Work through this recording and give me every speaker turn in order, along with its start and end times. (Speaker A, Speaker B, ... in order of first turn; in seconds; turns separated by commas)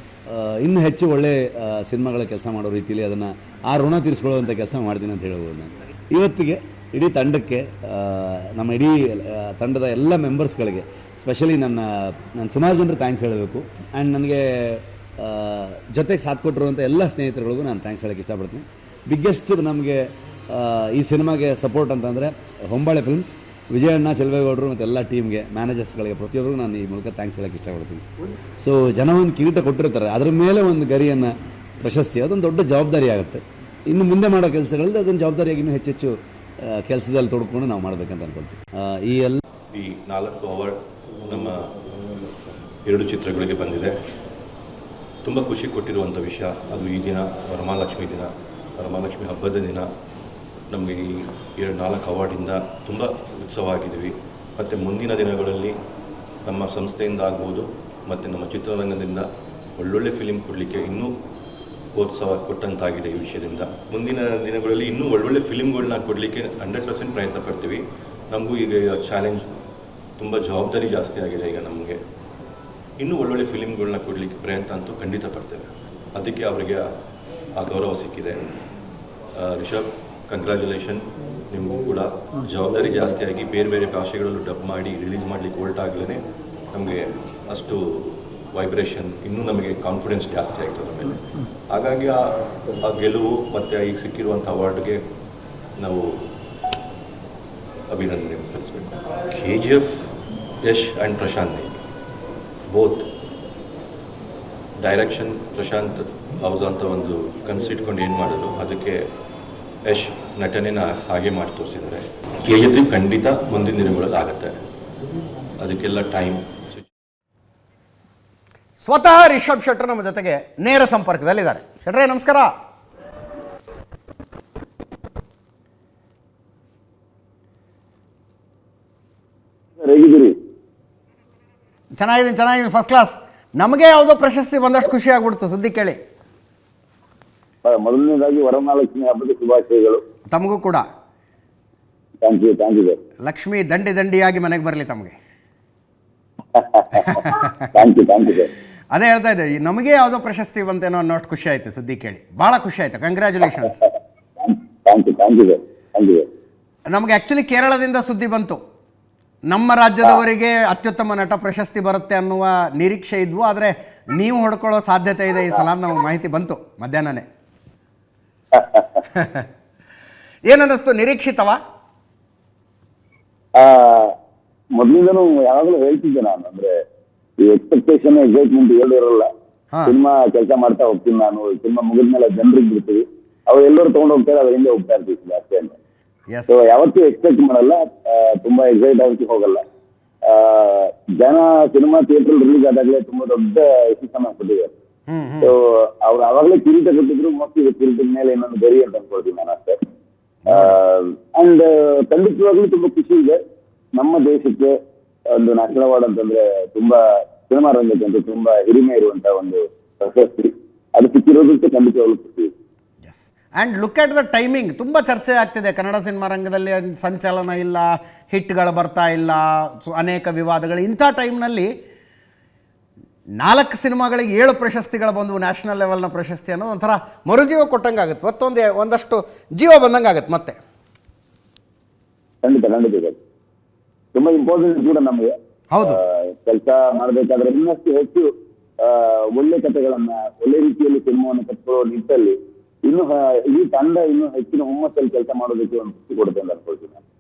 Speaker A: 0.3-39.4, Speaker B: 39.7-41.6, Speaker B: 42.9-43.9, Speaker B: 45.2-49.9, Speaker B: 50.7-55.8, Speaker B: 56.5-59.3, Speaker B: 59.8-61.1, Speaker B: 62.0-69.5, Speaker B: 70.2-72.0, Speaker B: 73.0-76.8, Speaker B: 77.6-78.6, Speaker B: 79.4-86.2, Speaker B: 86.7-92.2, Speaker B: 92.8-95.0, Speaker B: 95.8-96.1, Speaker B: 97.9-99.9, Speaker B: 100.6-101.7, Speaker B: 102.7-103.1, Speaker B: 104.8-109.0, Speaker B: 109.9-114.5, Speaker B: 115.6-116.9, Speaker C: 118.8-122.5, Speaker D: 129.8-130.3, Speaker C: 132.0-136.0, Speaker D: 137.6-140.0, Speaker C: 140.3-140.8, Speaker D: 142.2-143.0, Speaker C: 143.2-145.2, Speaker D: 146.6-148.5, Speaker C: 147.1-147.5, Speaker C: 148.9-153.8, Speaker D: 154.4-156.2, Speaker C: 156.9-158.6, Speaker C: 159.5-167.2, Speaker D: 168.5-169.0, Speaker C: 169.1-169.4, Speaker C: 170.5-171.6, Speaker D: 173.6-174.1, Speaker D: 174.7-176.7, Speaker D: 177.4-179.3, Speaker D: 179.9-185.8, Speaker C: 186.3-186.6, Speaker D: 186.5-189.6, Speaker D: 190.3-194.7, Speaker C: 195.1-195.5, Speaker D: 195.4-199.8, Speaker C: 200.5-200.8, Speaker D: 200.5-203.4, Speaker D: 203.9-204.7, Speaker D: 205.3-212.5, Speaker C: 213.0-221.7, Speaker C: 223.4-230.6, Speaker D: 232.4-233.2, Speaker D: 234.1-235.3, Speaker C: 235.7-236.0, Speaker D: 235.8-238.3, Speaker D: 238.8-247.0